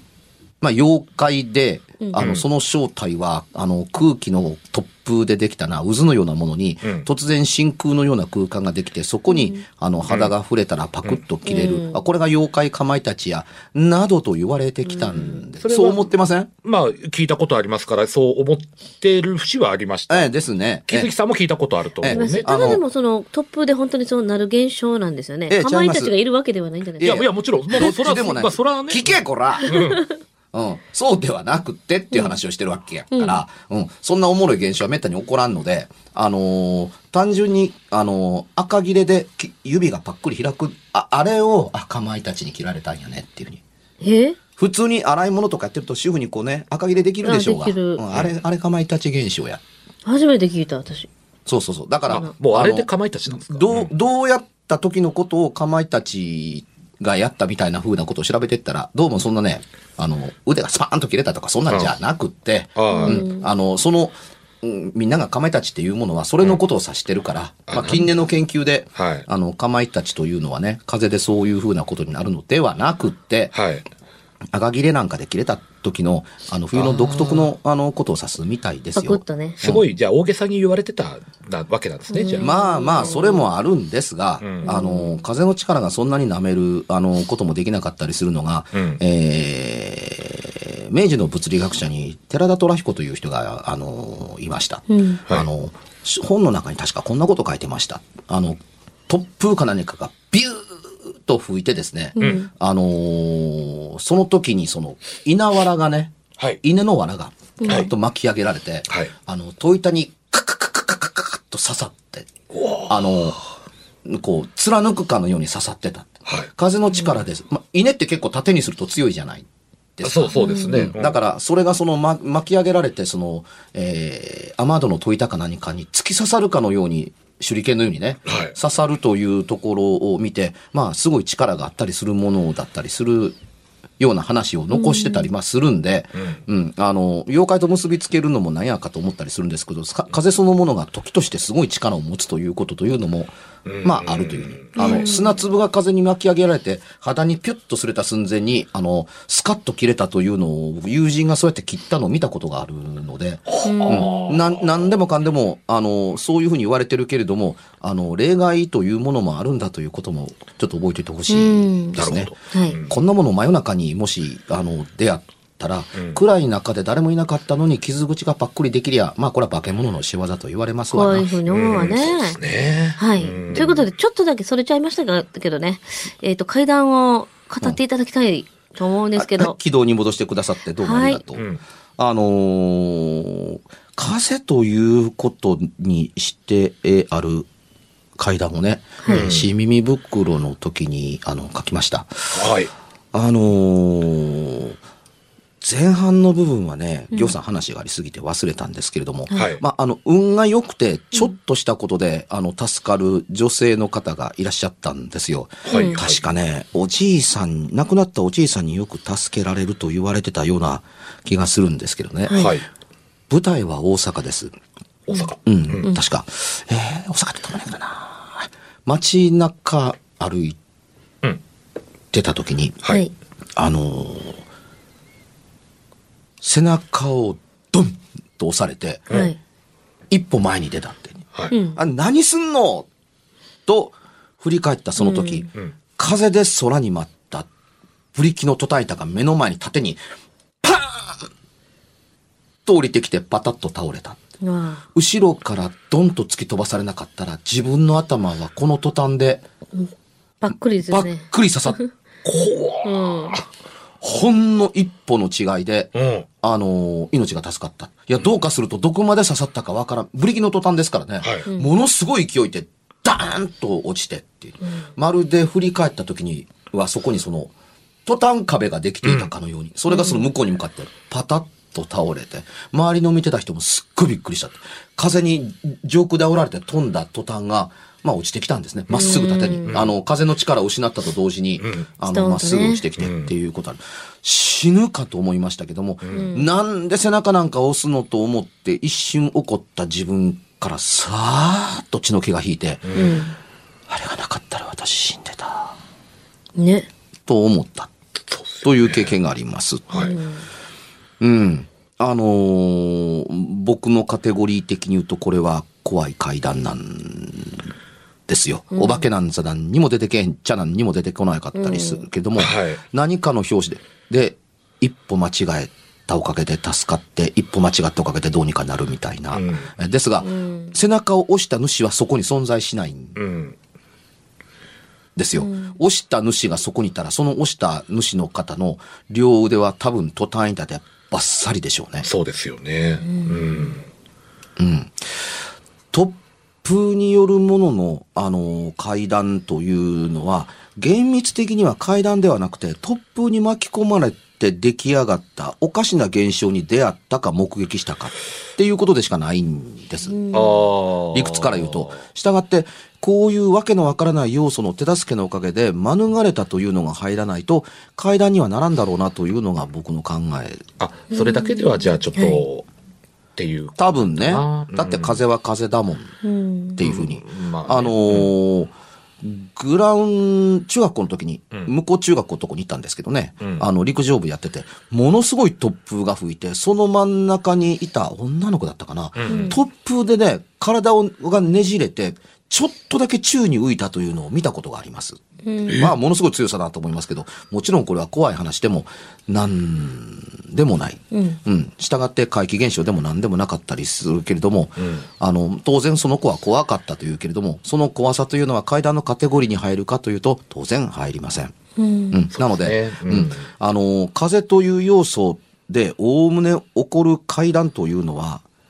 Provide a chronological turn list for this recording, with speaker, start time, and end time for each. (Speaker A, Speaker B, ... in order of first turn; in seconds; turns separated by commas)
Speaker A: 0.6-16.5, Speaker B: 2.0-2.3, Speaker C: 2.2-2.4, Speaker B: 9.3-9.6, Speaker C: 10.1-10.3, Speaker B: 11.4-12.0, Speaker B: 14.8-15.4, Speaker C: 15.6-16.1, Speaker C: 16.6-20.3, Speaker A: 20.1-21.1, Speaker C: 20.9-22.4, Speaker A: 22.0-22.8, Speaker B: 22.1-27.2, Speaker A: 25.5-26.1, Speaker A: 27.0-29.8, Speaker C: 27.0-30.0, Speaker B: 29.7-30.0, Speaker A: 30.5-43.6, Speaker B: 33.1-33.4, Speaker B: 44.0-44.4, Speaker A: 44.6-49.6, Speaker B: 47.2-48.0, Speaker B: 50.0-51.1, Speaker A: 51.5-73.5, Speaker C: 52.1-53.9, Speaker C: 61.7-61.9, Speaker C: 62.8-63.2, Speaker B: 62.9-63.5, Speaker C: 67.7-68.1, Speaker C: 68.9-69.2, Speaker C: 73.5-73.8, Speaker A: 74.5-79.8, Speaker C: 76.7-77.5, Speaker B: 79.0-79.6, Speaker C: 79.6-82.5, Speaker B: 82.1-83.5, Speaker A: 82.4-112.3, Speaker C: 84.4-84.8, Speaker B: 84.6-85.2, Speaker C: 88.7-89.0, Speaker B: 94.9-95.2, Speaker B: 102.2-102.5, Speaker B: 107.6-107.9, Speaker C: 112.5-113.2, Speaker A: 112.8-113.4, Speaker A: 114.0-119.5, Speaker A: 120.0-133.3, Speaker C: 120.0-121.2, Speaker B: 120.3-120.9, Speaker C: 128.2-128.5, Speaker A: 134.0-162.3, Speaker B: 134.7-135.3, Speaker C: 143.6-145.0, Speaker B: 144.7-145.4, Speaker C: 153.5-154.8, Speaker B: 153.6-154.2, Speaker B: 161.3-162.0, Speaker C: 161.9-162.9, Speaker B: 162.5-162.8, Speaker A: 162.8-171.3, Speaker B: 170.9-172.4, Speaker C: 171.4-173.8, Speaker B: 173.0-179.6, Speaker A: 179.2-181.4, Speaker B: 180.8-181.2, Speaker C: 181.3-181.6, Speaker A: 182.0-187.5, Speaker A: 188.2-192.5, Speaker B: 189.0-189.3, Speaker C: 189.1-189.5, Speaker C: 192.3-192.7, Speaker A: 193.1-194.8, Speaker A: 195.6-212.5, Speaker B: 199.3-199.5, Speaker C: 199.3-199.6, Speaker C: 205.6-206.2, Speaker B: 205.7-206.0, Speaker B: 212.3-212.6, Speaker C: 212.3-212.6, Speaker A: 213.3-214.5, Speaker C: 215.1-215.9, Speaker A: 215.4-220.6, Speaker A: 222.1-222.8, Speaker A: 223.6-224.4, Speaker A: 226.4-229.1, Speaker B: 229.1-229.4, Speaker A: 230.1-231.2, Speaker B: 231.5-231.8, Speaker A: 231.7-232.9, Speaker A: 233.7-237.5, Speaker B: 235.0-235.5, Speaker A: 238.1-240.0, Speaker A: 240.6-241.3, Speaker A: 242.7-244.2, Speaker B: 244.4-244.8, Speaker A: 244.9-249.4, Speaker B: 250.4-251.9, Speaker A: 250.8-251.8, Speaker C: 252.2-253.4, Speaker B: 252.8-253.4, Speaker A: 254.0-267.5, Speaker C: 255.9-256.3, Speaker C: 261.2-261.5, Speaker B: 261.4-261.7, Speaker B: 264.6-264.9, Speaker A: 268.1-293.1, Speaker C: 269.0-269.3, Speaker B: 269.9-270.2, Speaker B: 278.9-279.8, Speaker C: 279.7-279.9, Speaker C: 281.6-281.9, Speaker B: 282.1-282.8, Speaker C: 283.0-283.3, Speaker C: 286.0-286.3, Speaker B: 286.1-286.5, Speaker C: 292.8-293.2, Speaker B: 292.9-293.4, Speaker A: 293.9-295.8, Speaker B: 296.6-296.9, Speaker A: 297.3-297.9, Speaker C: 298.3-299.2, Speaker A: 298.6-300.1, Speaker B: 299.9-300.4, Speaker A: 301.2-307.7, Speaker A: 308.3-323.2, Speaker B: 308.7-309.1, Speaker B: 311.6-312.0, Speaker C: 312.4-312.8, Speaker C: 319.3-319.7, Speaker B: 320.2-320.8, Speaker C: 323.1-323.6, Speaker A: 325.1-332.1, Speaker B: 325.3-325.8, Speaker C: 332.0-333.8, Speaker B: 333.0-333.7, Speaker A: 334.6-335.0, Speaker A: 335.9-350.2, Speaker B: 350.0-350.7, Speaker C: 350.3-352.0, Speaker A: 351.1-360.6, Speaker C: 360.8-362.6, Speaker B: 361.1-362.4, Speaker C: 363.4-365.2, Speaker A: 363.8-366.1, Speaker B: 366.2-366.8, Speaker A: 366.8-385.2, Speaker C: 366.8-368.3, Speaker C: 373.4-373.7, Speaker C: 379.2-379.6, Speaker B: 379.3-379.6, Speaker B: 385.4-385.9, Speaker C: 385.7-385.9, Speaker A: 385.7-401.5, Speaker B: 391.1-391.4, Speaker C: 394.8-395.0, Speaker B: 401.8-402.2, Speaker A: 402.1-408.4, Speaker C: 402.3-403.4